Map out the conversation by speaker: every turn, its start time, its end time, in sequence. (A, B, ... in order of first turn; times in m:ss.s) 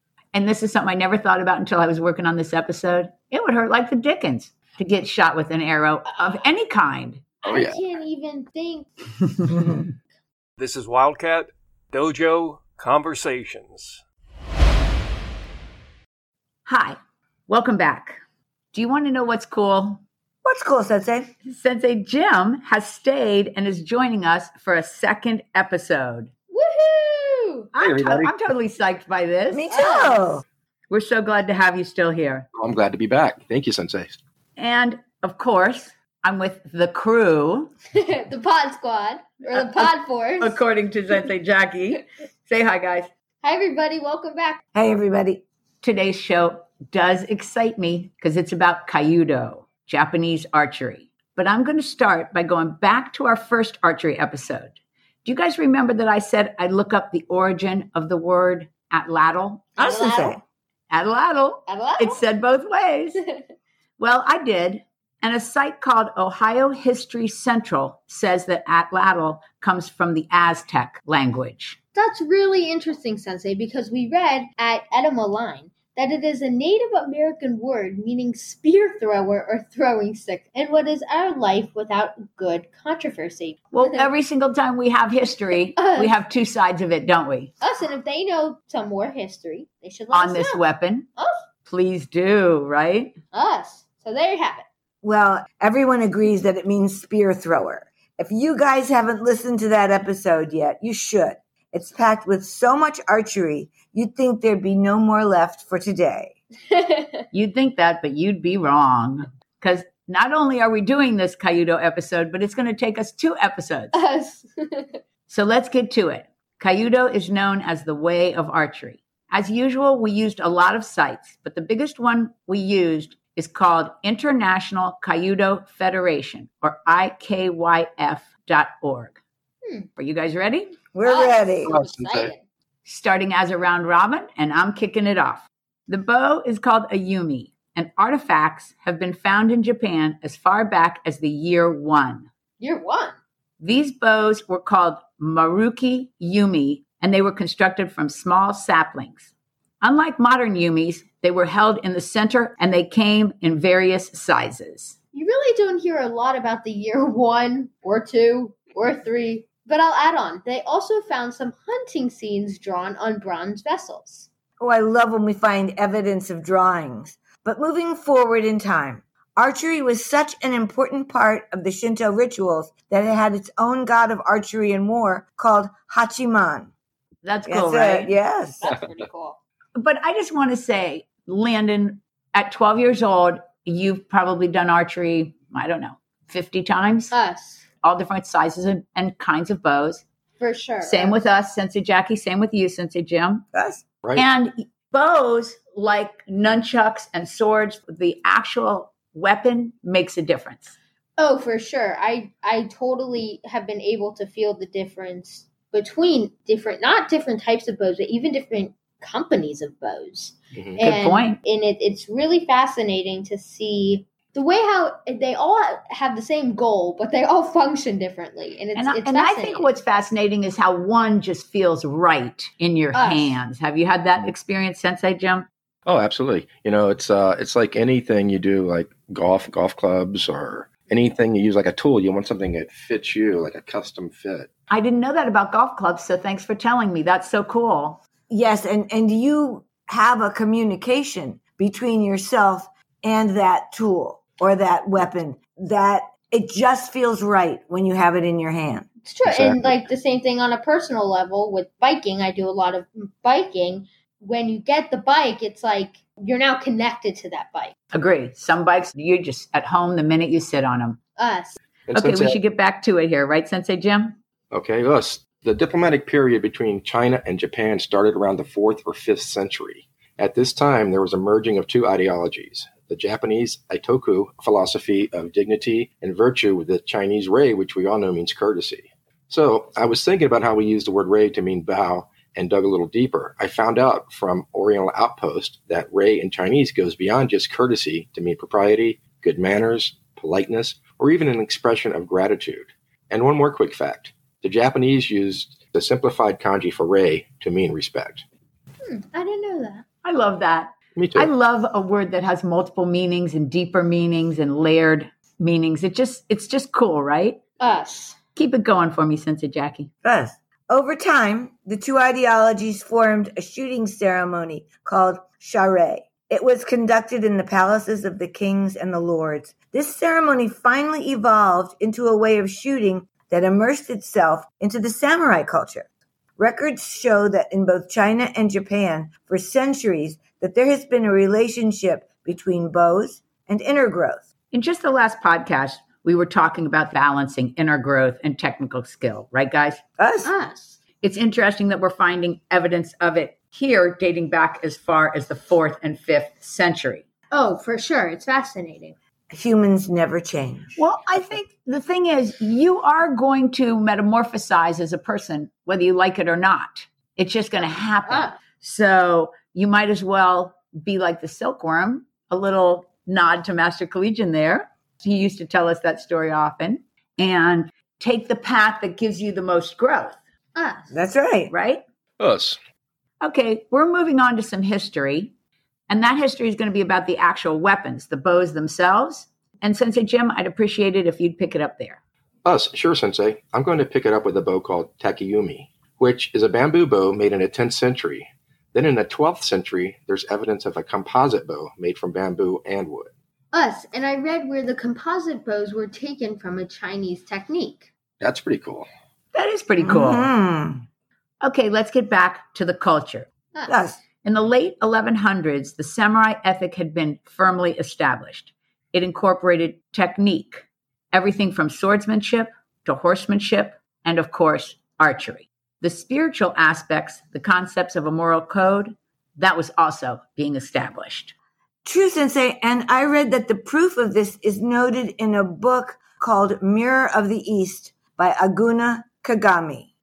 0:00.3-0:07.2 A
0:07.5-0:07.8 B
0:07.5-0:09.6 C
0:10.6-0:14.0 D
0:16.6-0:17.0 A
0:17.5-0:18.2 A
0:18.7-0:20.0 A
0:20.4-0:21.3 E
0:21.4-0:26.3 A
0:26.5-0:27.7 C
0:27.8-0:29.8 A
0:27.8-0:28.3 B
0:29.5-0:30.4 E
0:29.7-0:30.2 C
0:30.9-0:32.5 A
0:32.6-0:34.2 B
0:34.6-0:37.7 A
0:37.9-0:40.6 C
0:39.5-0:43.1 A
0:43.4-0:44.6 C
0:44.8-0:45.4 E
0:45.8-0:59.7 A
0:59.8-1:00.4 C
0:59.8-1:00.4 E
1:00.9-1:03.2 A
1:01.7-1:02.2 C
1:04.0-1:11.8 A
1:12.0-1:24.1 C
1:23.7-1:27.5 A
1:25.8-1:26.2 C
1:27.6-1:30.6 C
1:30.1-1:31.1 A
1:31.2-1:31.4 C
1:31.7-1:33.2 A
1:33.3-1:34.6 C
1:35.0-1:46.3 E
1:46.7-1:47.2 C
1:47.3-1:54.0 A
1:53.9-1:55.0 C
1:55.3-2:09.2 A
2:09.6-2:09.9 C
2:10.0-2:10.7 A
2:11.0-2:11.7 E
2:11.0-2:12.4 C
2:11.7-2:12.3 B
2:12.8-2:22.3 A
2:22.6-2:23.2 C
2:23.6-2:35.0 A
2:35.1-2:44.3 C
2:44.6-2:56.7 E
2:57.2-2:58.2 A
2:57.5-2:58.6 E
2:58.6-2:59.4 C
2:59.8-3:07.1 A
3:07.1-3:07.7 C
3:07.8-3:10.0 A
3:10.4-3:11.2 C
3:10.8-3:13.4 A
3:13.5-3:13.8 E
3:14.2-3:20.8 A
3:21.2-3:39.8 C
3:30.6-3:30.8 B
3:30.8-3:31.4 A
3:38.8-3:45.5 A
3:42.9-3:43.4 C
3:45.8-3:54.5 B
3:54.7-3:58.0 A
3:58.3-4:08.9 E
4:09.0-4:17.8 C
4:09.2-4:09.8 B
4:17.9-4:21.0 A
4:21.2-4:21.6 C
4:21.9-4:22.4 B
4:21.9-4:24.2 A
4:24.5-4:58.2 B
4:58.8-4:59.8 C
5:00.0-5:07.4 A
5:01.0-5:01.3 B
5:07.6-5:08.2 C
5:08.4-5:09.9 A
5:10.0-5:25.9 E
5:26.4-5:34.2 E
5:34.5-5:39.8 A
5:40.0-5:40.3 E
5:40.2-5:40.8 C
5:41.0-5:47.0 A
5:47.3-5:49.0 C
5:49.3-5:50.8 E
5:50.8-6:10.2 A
5:58.1-5:58.4 C
6:10.6-6:10.9 C
6:10.9-6:11.5 E
6:11.5-6:11.8 A
6:12.2-6:12.6 B
6:13.2-6:15.3 A
6:15.9-6:22.0 A
6:22.4-6:33.1 B
6:33.5-6:37.9 C
6:38.2-6:38.9 B
6:39.3-6:40.3 A
6:39.8-6:40.8 E
6:41.4-6:43.3 A
6:43.7-6:44.0 E
6:44.2-7:01.4 A
7:01.8-7:09.9 E